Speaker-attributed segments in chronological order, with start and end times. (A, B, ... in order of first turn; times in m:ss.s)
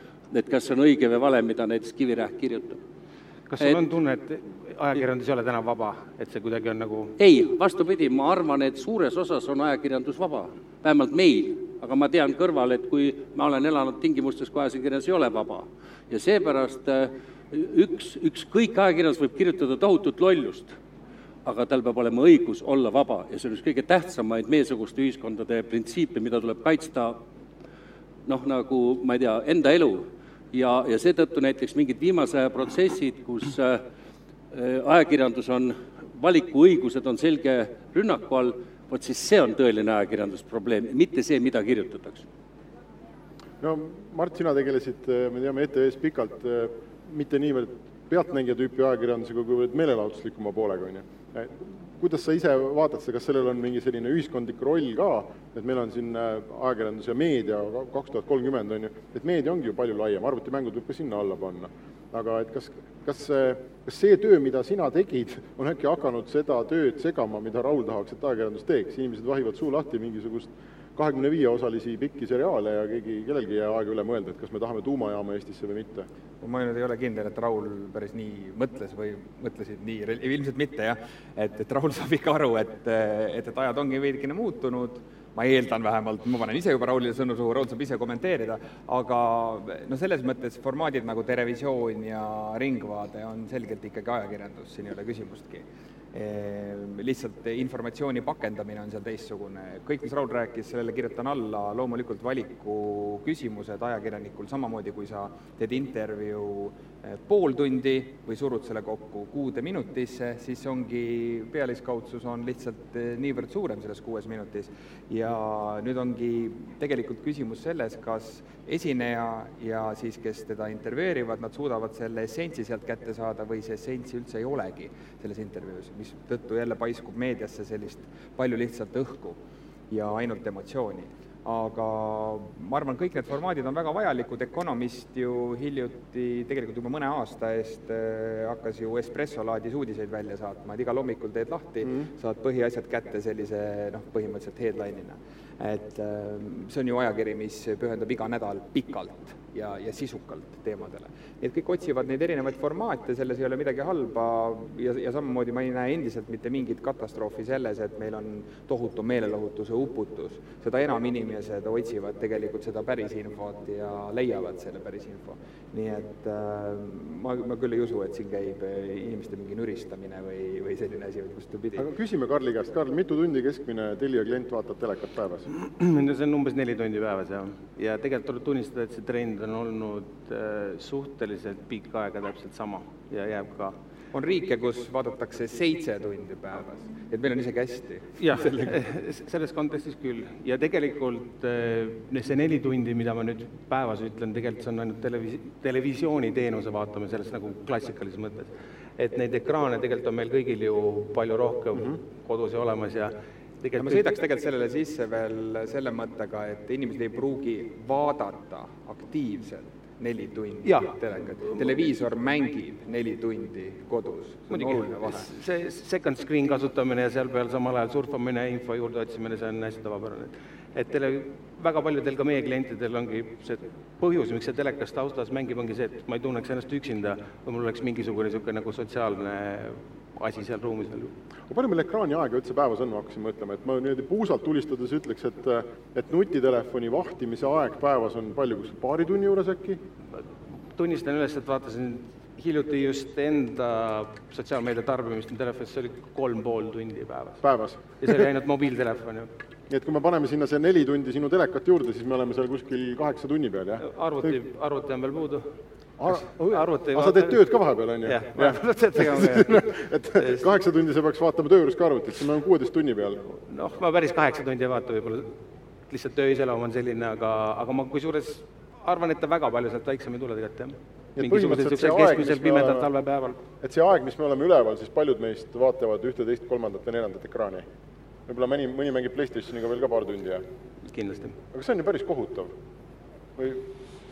0:00.3-0:02.8 A
0:03.5-0:07.2 B
0:07.2-0:20.8 A
0:21.4-0:27.2 A
0:28.2-0:33.8 A
0:34.5-0:42.2 A
0:43.6-1:16.1 C
1:16.4-2:51.8 D
2:51.8-2:55.5 C
2:55.5-3:03.8 B
3:04.1-3:08.8 D
3:08.2-3:24.2 B
3:23.8-3:35.3 D
3:30.6-3:30.9 B
3:31.4-3:31.7 B
3:34.5-3:51.2 B
3:51.5-3:59.8 C
4:00.1-4:07.4 B
4:07.4-4:08.2 C
4:08.0-4:09.3 B
4:09.7-4:14.3 C
4:13.8-4:15.5 B
4:16.0-4:23.2 C
4:16.0-4:17.5 B
4:18.0-4:20.5 B
4:23.5-4:33.4 B
4:31.2-4:32.9 C
4:33.6-4:37.6 C
4:38.3-4:40.4 C
4:40.9-4:41.4 B
4:41.5-4:42.5 C
4:43.4-4:43.7 C